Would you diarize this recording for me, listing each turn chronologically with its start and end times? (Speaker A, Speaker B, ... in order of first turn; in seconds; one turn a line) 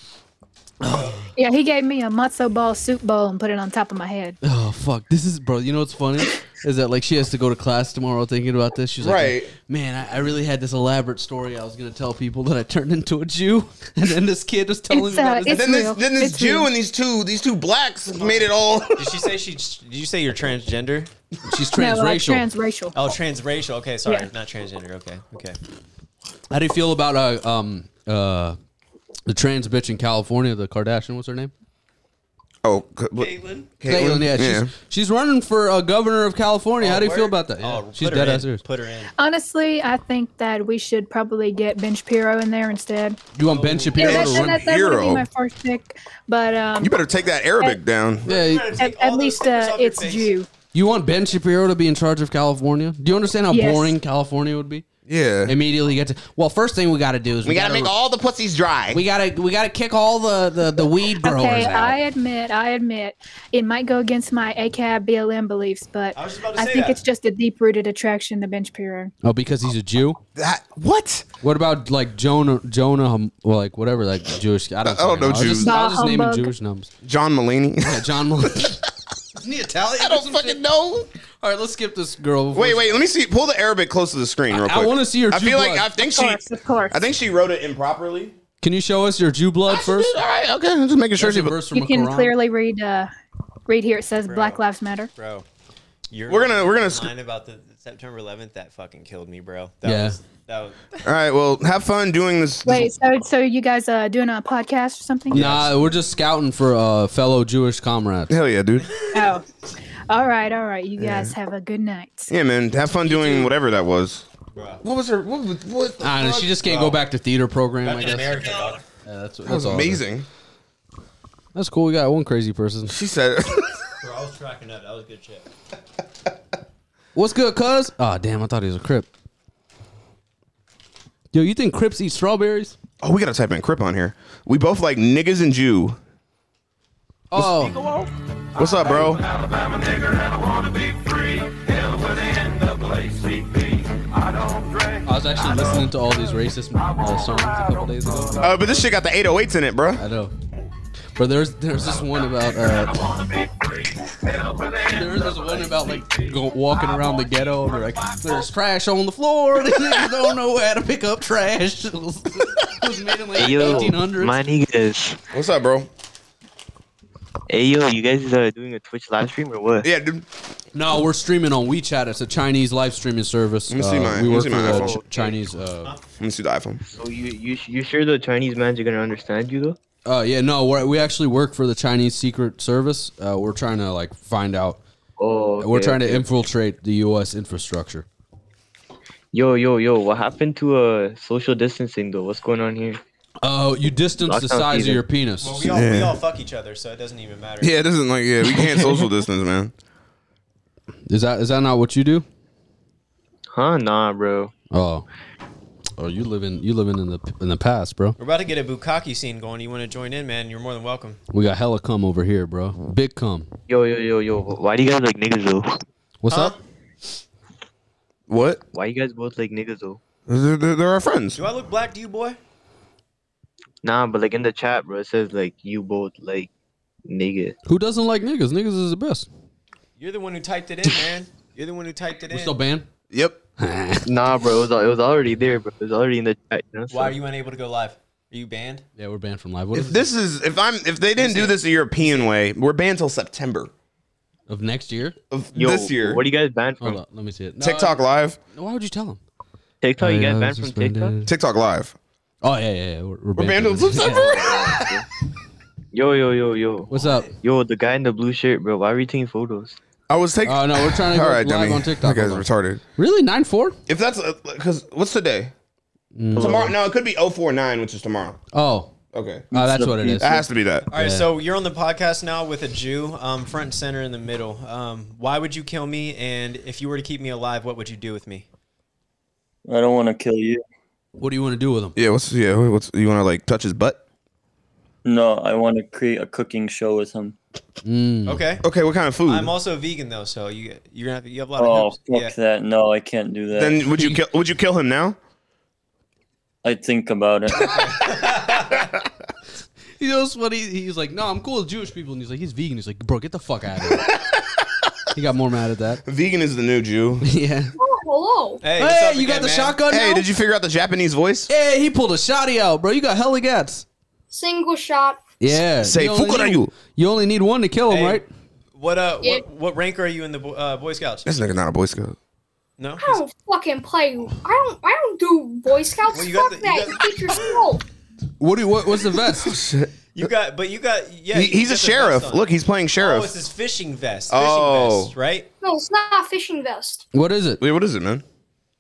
Speaker A: 0.8-1.3
Speaker B: 1.4-4.4
Speaker A: 4.4-15.6
Speaker C: 9.0-9.5
Speaker B: 14.9-16.7
Speaker C: 15.5-19.1
Speaker D: 18.2-21.1
Speaker A: 21.5-22.5
Speaker B: 21.8-22.9
Speaker D: 23.0-25.6
Speaker A: 26.5-28.6
Speaker A: 29.3-31.5
Speaker C: 32.6-34.7
Speaker D: 33.2-33.7
Speaker A: 33.9-38.6
Speaker D: 36.8-39.1
Speaker B: 39.2-43.2
Speaker A: 43.3-44.6
Speaker D: 43.5-44.0
Speaker B: 44.0-47.0
Speaker C: 44.0-45.2
Speaker C: 46.8-48.3
Speaker D: 48.2-50.3
Speaker A: 48.3-48.7
Speaker B: 48.8-50.5
Speaker A: 50.7-54.9
Speaker B: 53.5-53.9
Speaker C: 55.1-55.5
Speaker A: 55.5-57.9
Speaker C: 57.5-59.0
Speaker A: 58.9-62.0
Speaker B: 61.2-69.1
Speaker D: 66.2-67.0
Speaker A: 69.2-70.2
Speaker C: 70.4-71.2
Speaker A: 71.4-76.9
Speaker C: 74.8-75.8
Speaker B: 75.6-76.5
Speaker C: 77.0-78.8
Speaker A: 77.9-78.8
Speaker A: 79.4-80.6
Speaker C: 80.0-81.1
Speaker A: 81.4-83.0
Speaker C: 82.5-88.4
Speaker A: 84.5-85.9
Speaker B: 86.0-87.0
Speaker A: 88.6-90.1
Speaker C: 89.7-91.6
Speaker A: 91.2-92.3
Speaker B: 91.7-93.1
Speaker B: 93.7-95.1
Speaker D: 94.2-94.6
Speaker D: 95.2-95.5
Speaker D: 96.1-101.0
Speaker C: 96.3-97.1
Speaker A: 99.8-100.2
Speaker C: 101.0-102.9
Speaker B: 102.7-105.8
Speaker A: 105.3-108.3
Speaker C: 108.3-108.9
Speaker B: 109.1-109.4
Speaker B: 110.1-112.3
Speaker C: 111.0-111.3
Speaker C: 112.3-114.3
Speaker D: 113.1-113.5
Speaker D: 114.5-114.8
Speaker C: 114.8-116.6
Speaker A: 116.0-118.4
Speaker D: 116.7-117.0
Speaker D: 117.8-118.8
Speaker A: 119.0-120.0
Speaker C: 119.5-120.3
Speaker A: 121.5-123.0
Speaker C: 122.9-123.8
Speaker D: 124.0-125.5
Speaker A: 127.2-129.1
Speaker A: 131.3-132.8
Speaker C: 133.0-136.0
Speaker A: 137.3-137.8
Speaker C: 137.4-137.7
Speaker C: 138.6-139.2
Speaker A: 145.1-148.4
Speaker C: 148.4-150.0
Speaker A: 150.0-150.3
Speaker A: 151.2-153.1
Speaker A: 154.8-164.4
Speaker E: 163.3-165.2
Speaker C: 165.3-165.9
Speaker E: 167.5-169.9
Speaker C: 169.8-170.3
Speaker A: 170.7-175.9
Speaker C: 173.7-175.0
Speaker E: 174.5-175.1
Speaker C: 176.2-176.8
Speaker E: 176.8-179.8
Speaker A: 180.1-184.8
Speaker E: 185.2-186.3
Speaker A: 185.6-188.1
Speaker E: 189.3-193.0
Speaker A: 193.4-195.7
Speaker E: 194.2-195.0
Speaker D: 195.4-197.8
Speaker C: 195.7-196.2
Speaker C: 197.6-199.7
Speaker A: 201.1-202.3
Speaker E: 203.5-204.5
Speaker A: 204.7-205.1
Speaker A: 206.0-208.2
Speaker D: 208.2-211.2
Speaker A: 211.3-213.5
Speaker E: 213.7-215.7
Speaker A: 216.2-216.5
Speaker D: 216.3-216.6
Speaker C: 218.3-218.6
Speaker E: 218.7-220.0
Speaker C: 220.3-221.4
Speaker D: 221.4-222.4
Speaker E: 223.8-226.5
Speaker E: 227.1-227.6
Speaker A: 227.7-229.3
Speaker D: 230.0-232.6
Speaker A: 232.3-232.9
Speaker C: 233.1-233.4
Speaker A: 233.6-234.1
Speaker E: 234.1-237.2
Speaker D: 236.9-238.8
Speaker A: 239.0-240.1
Speaker C: 239.7-243.7
Speaker D: 241.2-242.3
Speaker A: 244.5-245.2
Speaker C: 245.3-246.2
Speaker E: 245.5-247.0
Speaker A: 246.8-248.0
Speaker C: 247.6-248.4
Speaker A: 248.5-249.2
Speaker E: 249.8-251.2
Speaker A: 250.0-251.3
Speaker C: 251.2-251.9
Speaker A: 252.4-254.8
Speaker C: 253.4-254.8
Speaker E: 254.0-255.0
Speaker E: 255.9-256.9
Speaker A: 256.9-257.3
Speaker D: 256.9-257.3
Speaker E: 257.4-259.8
Speaker C: 260.1-262.8
Speaker A: 260.4-263.8
Speaker C: 263.9-265.5
Speaker A: 266.1-266.8
Speaker C: 266.4-268.4
Speaker A: 268.5-268.9
Speaker C: 269.1-270.9
Speaker A: 269.5-271.3
Speaker D: 270.9-278.5
Speaker F: 279.6-280.6
Speaker A: 281.2-282.0
Speaker C: 282.0-284.0
Speaker F: 285.1-287.4
Speaker A: 287.9-288.4
Speaker D: 288.3-288.6
Speaker C: 288.6-289.5
Speaker D: 289.3-292.3
Speaker F: 291.6-293.8
Speaker C: 293.6-295.2
Speaker A: 293.9-294.2
Speaker F: 296.6-297.8
Speaker D: 297.6-298.9
Speaker A: 300.0-304.1
Speaker C: 304.1-304.4
Speaker A: 305.1-306.0
Speaker C: 306.1-307.2
Speaker A: 307.2-307.7
Speaker G: 307.8-308.6
Speaker D: 308.6-309.8
Speaker A: 308.8-310.3
Speaker C: 309.9-311.5
Speaker A: 311.5-313.9
Speaker G: 314.3-315.2
Speaker A: 315.4-318.2
Speaker C: 315.8-316.7
Speaker D: 317.9-318.2
Speaker D: 318.8-321.3
Speaker C: 321.3-322.2
Speaker D: 322.8-323.2
Speaker G: 323.0-327.8
Speaker D: 326.1-327.6
Speaker A: 328.4-329.6
Speaker C: 329.4-329.9
Speaker D: 330.1-335.5
Speaker C: 331.3-333.4
Speaker C: 334.3-335.1
Speaker G: 335.6-337.1
Speaker A: 337.1-337.6
Speaker C: 337.6-338.2